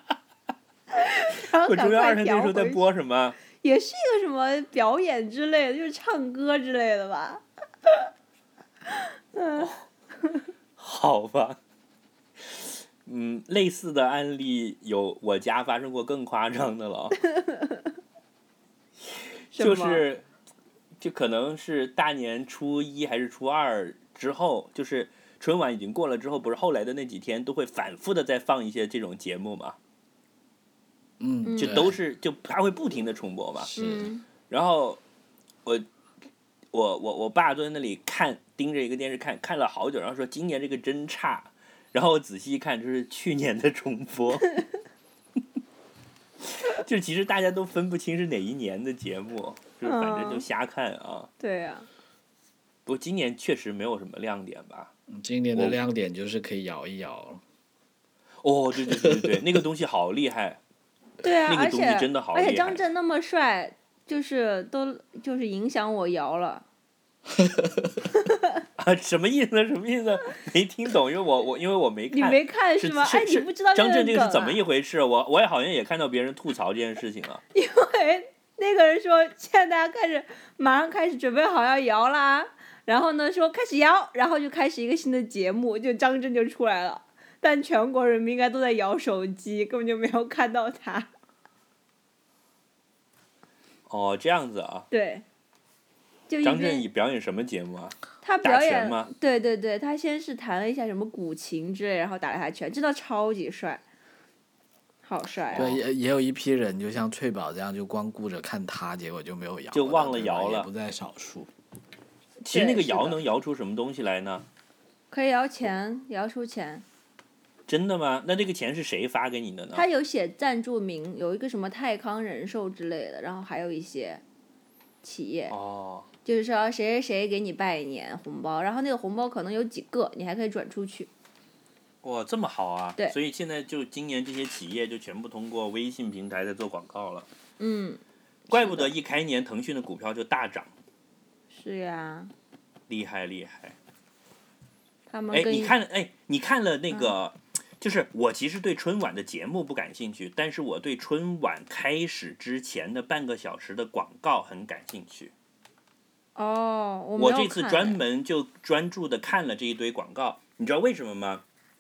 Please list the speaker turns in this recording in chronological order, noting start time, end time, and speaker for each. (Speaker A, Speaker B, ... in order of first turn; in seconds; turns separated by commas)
Speaker A: 0.9-2.8, Speaker B: 1.6-3.4, Speaker A: 3.5-8.1, Speaker A: 8.9-9.7, Speaker B: 10.8-11.6, Speaker B: 12.4-17.2, Speaker A: 17.4-17.8, Speaker B: 19.1-20.2, Speaker A: 19.6-20.0, Speaker B: 21.0-29.8, Speaker C: 31.2-32.0, Speaker A: 31.4-31.8, Speaker B: 31.6-33.7, Speaker C: 33.6-34.1, Speaker A: 33.8-34.2, Speaker B: 34.5-35.0, Speaker B: 36.7-44.6, Speaker B: 46.6-51.3, Speaker A: 49.8-50.5, Speaker A: 51.4-51.9, Speaker B: 52.9-54.9, Speaker C: 55.1-57.4, Speaker B: 58.4-60.6, Speaker C: 58.8-59.5, Speaker A: 61.2-66.7, Speaker B: 61.5-62.8, Speaker C: 67.4-67.9, Speaker B: 68.8-77.4, Speaker A: 72.1-74.6, Speaker A: 77.5-91.1, Speaker B: 93.9-94.9, Speaker A: 94.9-95.2, Speaker A: 96.3-96.8, Speaker B: 96.4-99.1, Speaker A: 98.2-103.8, Speaker A: 105.0-105.7, Speaker B: 105.5-105.8, Speaker C: 105.5-111.5, Speaker B: 109.7-110.7, Speaker B: 112.5-114.5, Speaker A: 112.5-113.2, Speaker A: 115.1-116.8, Speaker B: 117.7-119.8, Speaker A: 119.7-124.2, Speaker A: 125.0-125.5, Speaker B: 125.5-126.1, Speaker A: 126.2-131.1, Speaker B: 132.0-137.3, Speaker A: 137.6-138.9, Speaker B: 138.5-140.7, Speaker A: 141.5-142.3, Speaker B: 142.9-143.8, Speaker A: 145.1-145.7, Speaker B: 145.3-155.3, Speaker A: 156.4-158.0, Speaker B: 157.2-161.4